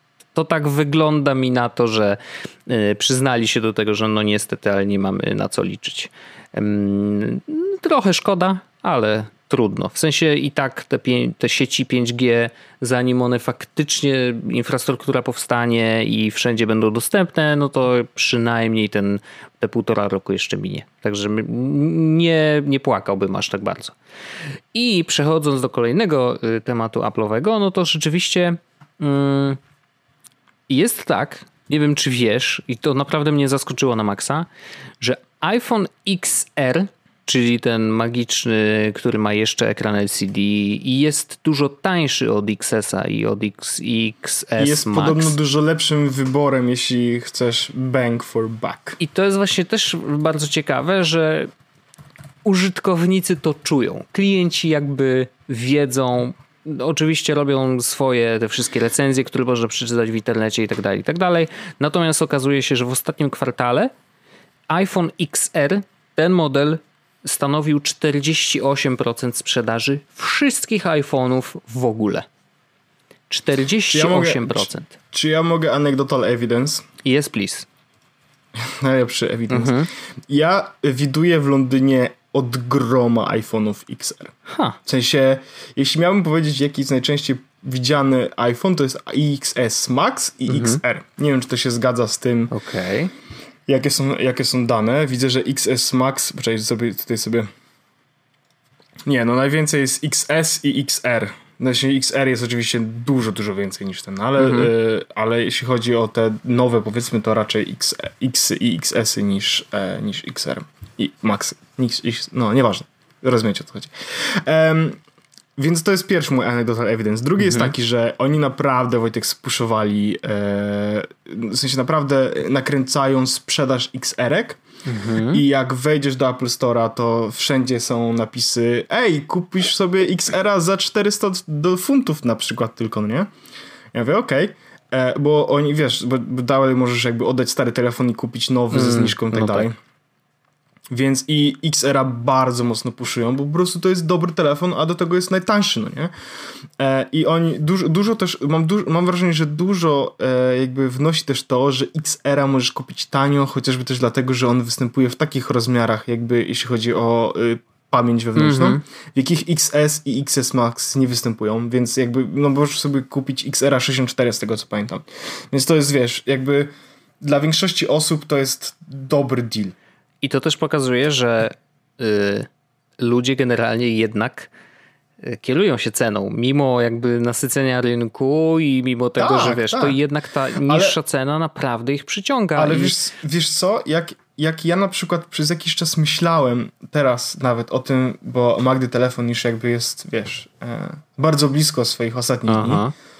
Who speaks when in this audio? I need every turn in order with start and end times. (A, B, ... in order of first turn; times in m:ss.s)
0:00.3-0:24.0 A
0:24.7-0:29.6 A
0:30.7-0:34.5 A
0:35.0-0:45.3 A
0:44.6-0:49.0 B
0:49.0-0:51.5 A
0:52.4-1:03.9 A
1:04.7-1:12.2 A
1:13.3-1:14.9 A
1:13.9-1:16.8 B
1:17.0-1:17.7 A
1:18.5-1:24.3 B
1:19.5-1:19.9 A
1:24.5-1:24.8 A
1:24.8-1:32.5 B
1:30.5-1:30.8 A
1:32.5-1:33.1 A
1:33.7-1:37.5 B
1:39.0-1:55.0 B
1:44.4-1:44.7 A
1:55.6-2:04.6 B
1:57.4-1:57.7 A
2:04.8-2:05.4 A
2:05.2-2:13.3 B
2:13.9-2:19.8 B
2:18.7-2:19.7 A
2:20.9-2:26.1 B
2:26.8-2:49.7 B
2:38.4-2:38.8 A
2:50.2-2:52.5 A
2:53.0-2:54.5 A
2:55.2-3:03.0 A
2:59.2-3:00.0 B
3:00.6-3:01.0 B
3:02.6-3:12.8 B
3:12.5-3:12.9 A